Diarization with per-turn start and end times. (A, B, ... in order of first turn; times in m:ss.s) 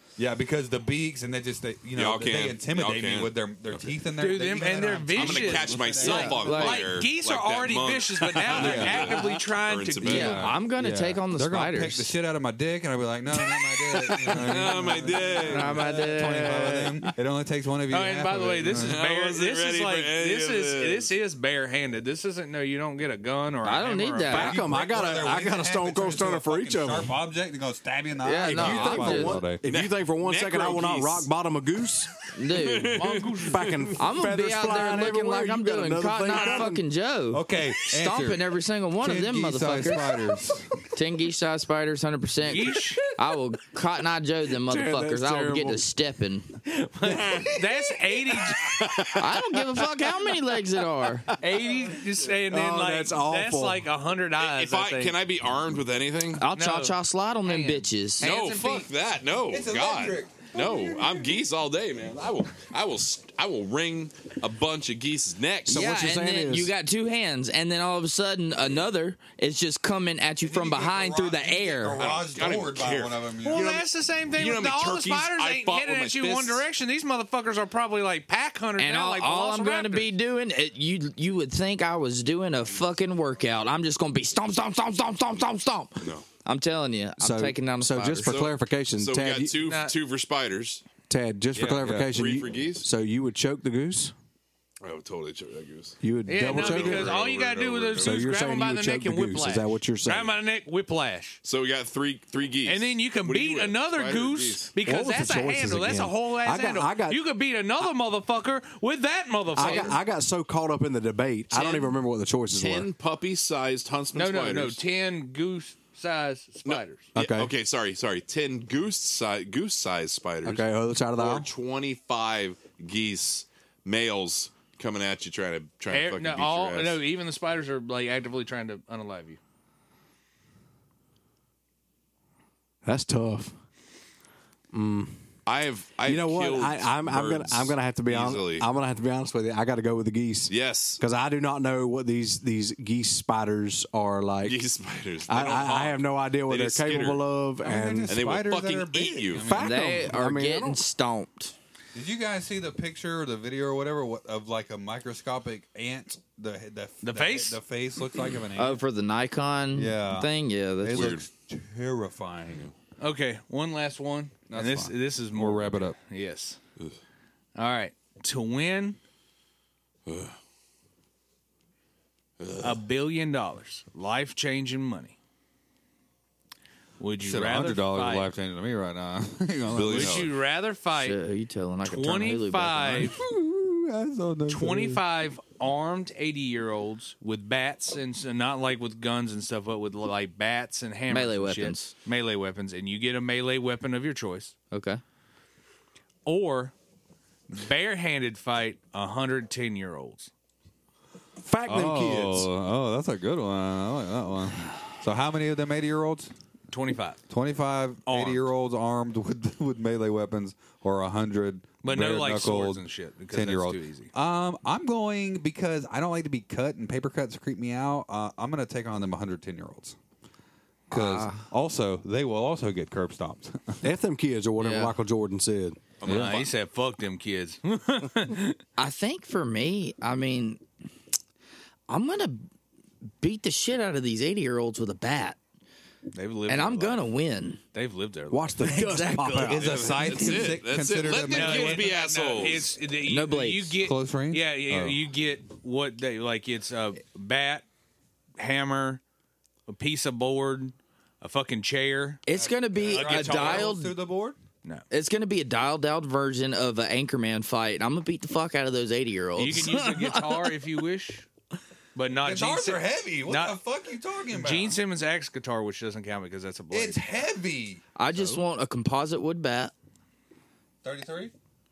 0:00.2-0:06.5 A
0:02.0-0:03.4 B
0:04.2-0:10.5 C
0:05.1-0:10.5 B
0:06.0-0:07.0 D
0:08.5-0:09.2 A
0:10.1-0:12.1 D
0:10.1-0:19.0 A
0:14.3-0:16.0 B
0:15.4-0:17.0 D
0:17.9-0:24.6 C
0:18.7-0:21.1 B
0:23.6-0:24.6 D
0:24.3-0:27.1 E
0:24.3-0:29.6 A
0:28.2-0:29.4 D
0:28.5-0:32.2 E
0:29.7-0:31.3 B
0:32.3-0:33.0 D
0:32.4-0:33.9 B
0:33.0-0:33.8 C
0:33.4-0:36.8 E
0:34.0-0:40.0 D
0:37.3-0:38.5 A
0:39.0-0:40.7 A
0:40.9-0:46.6 D
0:42.4-0:43.1 C
0:44.6-0:45.8 E
0:46.7-0:48.8 C
0:47.2-0:47.6 E
0:48.6-0:49.4 E
0:49.2-0:51.3 D
0:51.4-0:55.2 C
0:52.5-0:53.9 E
0:54.4-0:56.5 B
0:56.3-0:58.3 D
0:56.6-0:58.9 C
0:58.2-1:05.8 B
0:59.5-1:01.2 A
1:05.7-1:12.2 D
1:05.7-1:06.7 E
1:10.4-1:13.7 A
1:12.0-1:16.7 B
1:13.4-1:20.1 C
1:18.8-1:28.4 D
1:26.0-1:26.3 B
1:27.2-1:29.6 E
1:28.2-1:30.8 B
1:29.6-1:29.9 C
1:31.1-1:34.1 E
1:31.5-1:32.1 A
1:31.8-1:32.9 B
1:34.8-1:38.2 B
1:36.0-1:37.2 E
1:36.3-1:41.4 C
1:38.0-1:40.4 E
1:41.4-1:44.7 B
1:42.7-1:50.0 C
1:44.8-1:47.2 E
1:49.6-1:52.9 E
1:49.6-1:50.0 B
1:51.5-1:52.0 B
1:52.5-1:54.8 B
1:54.1-1:57.1 C
1:56.6-2:07.0 B
1:57.2-1:57.5 E
2:00.4-2:01.5 E
2:05.9-2:09.4 C
2:12.8-2:13.5 E
2:14.7-2:15.2 E
2:15.5-2:18.7 B
2:16.1-2:24.6 E
2:20.5-2:21.0 B
2:24.4-2:27.2 B
2:25.3-2:28.2 E
2:27.6-2:30.2 A
2:28.1-2:29.6 B
2:29.4-2:30.8 E
2:29.6-2:31.6 D
2:31.9-2:38.8 A
2:37.0-2:37.6 C
2:38.6-2:41.2 D
2:39.7-2:42.7 A
2:40.9-2:41.3 B
2:43.0-2:46.6 C
2:44.5-2:46.0 A
2:47.6-2:49.0 C
2:50.1-2:50.4 B
2:52.4-2:52.8 B
2:52.6-2:55.2 C
2:57.0-2:58.3 C
2:57.2-3:00.3 A
2:59.7-3:00.3 B
2:59.8-3:01.2 C
3:00.9-3:03.2 D
3:01.8-3:03.2 C
3:03.1-3:05.0 A
3:04.5-3:14.5 C
3:11.1-3:11.9 D
3:14.7-3:15.0 D
3:16.3-3:16.7 C
3:17.5-3:20.3 C
3:21.4-3:22.5 E
3:21.7-3:26.3 A
3:26.7-3:27.2 C
3:27.3-3:40.0 A
3:28.1-3:28.5 C
3:31.8-3:34.1 C
3:40.9-3:43.9 A
3:40.9-3:41.4 D
3:43.8-3:45.8 E
3:44.6-3:45.0 D
3:46.0-3:46.5 B
3:46.0-3:48.6 C
3:48.8-3:50.6 D
3:51.9-3:52.4 D
3:53.2-3:55.4 D
3:56.1-3:57.0 C
3:56.5-3:57.6 D
3:57.7-4:00.0 C
3:58.3-4:00.0 E
3:58.6-3:59.6 D
3:59.4-4:01.9 A
3:59.8-4:02.7 B
4:01.2-4:07.7 C
4:03.1-4:03.8 D
4:03.8-4:05.0 A
4:08.4-4:09.0 C
4:09.7-4:12.2 C
4:12.3-4:14.0 D
4:12.3-4:14.4 A
4:12.8-4:13.8 C
4:14.9-4:20.5 D
4:19.4-4:21.3 C
4:22.0-4:23.6 C
4:22.2-4:24.8 A
4:24.3-4:27.0 C
4:26.7-4:27.8 A
4:28.0-4:29.7 D
4:30.8-4:31.3 A